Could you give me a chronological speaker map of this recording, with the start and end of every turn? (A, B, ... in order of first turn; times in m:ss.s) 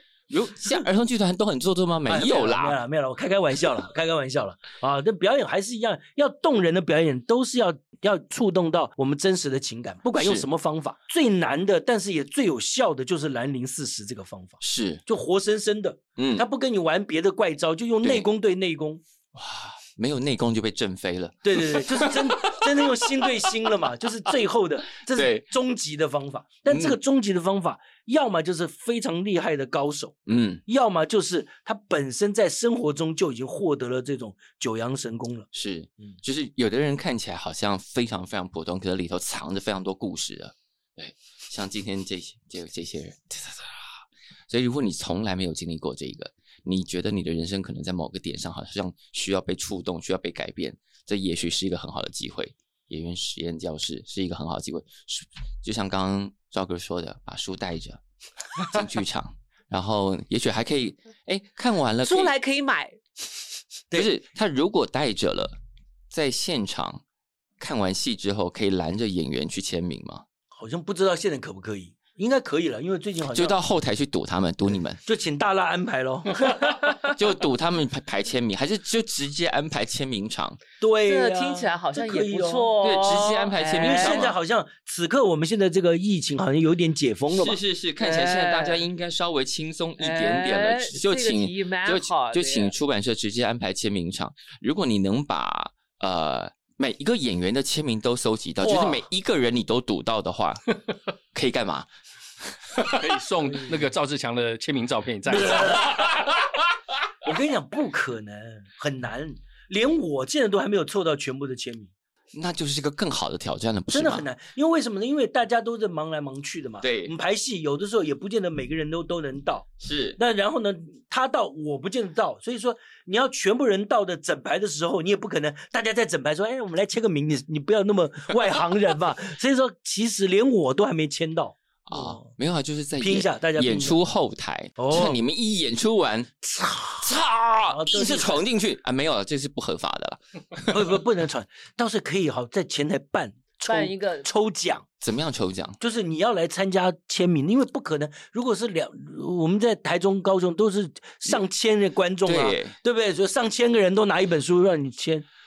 0:00.3-0:02.8 A
0:02.1-0:19.0 B
0:10.2-0:10.4 A
0:14.6-0:15.0 A
0:16.2-0:16.5 A
0:19.3-0:22.6 A
0:21.4-0:35.5 B
0:25.1-0:25.4 A
0:26.7-0:27.0 A
0:30.3-0:30.6 A
0:35.5-0:58.0 A
0:58.5-1:02.3 A
1:02.0-1:03.0 C
1:03.9-1:05.6 A
1:06.1-1:07.0 A
1:07.6-1:10.2 A
1:10.5-1:13.6 B
1:13.3-1:15.0 A
1:15.0-1:16.8 B
1:17.1-1:20.6 A
1:20.8-1:22.8 B
1:21.0-1:24.4 C
1:22.8-1:24.4 A
1:23.8-1:27.6 B
1:27.3-1:40.7 A
1:28.0-1:28.8 C
1:30.0-1:32.7 C
1:38.6-1:39.0 B
1:41.3-1:41.9 A
1:42.8-1:46.3 D
1:45.3-1:46.2 B
1:47.2-1:51.9 B
1:52.3-1:54.2 A
1:53.9-2:12.3 B
1:56.8-1:57.1 A
1:59.8-2:00.2 A
2:11.8-2:16.4 A
2:13.0-2:14.0 B
2:14.8-2:15.2 B
2:16.5-2:17.1 B
2:17.0-2:21.0 A
2:17.7-2:18.4 B
2:20.7-2:24.8 B
2:23.7-2:24.3 C
2:25.0-2:25.8 A
2:25.8-2:35.2 B
2:32.2-2:32.8 A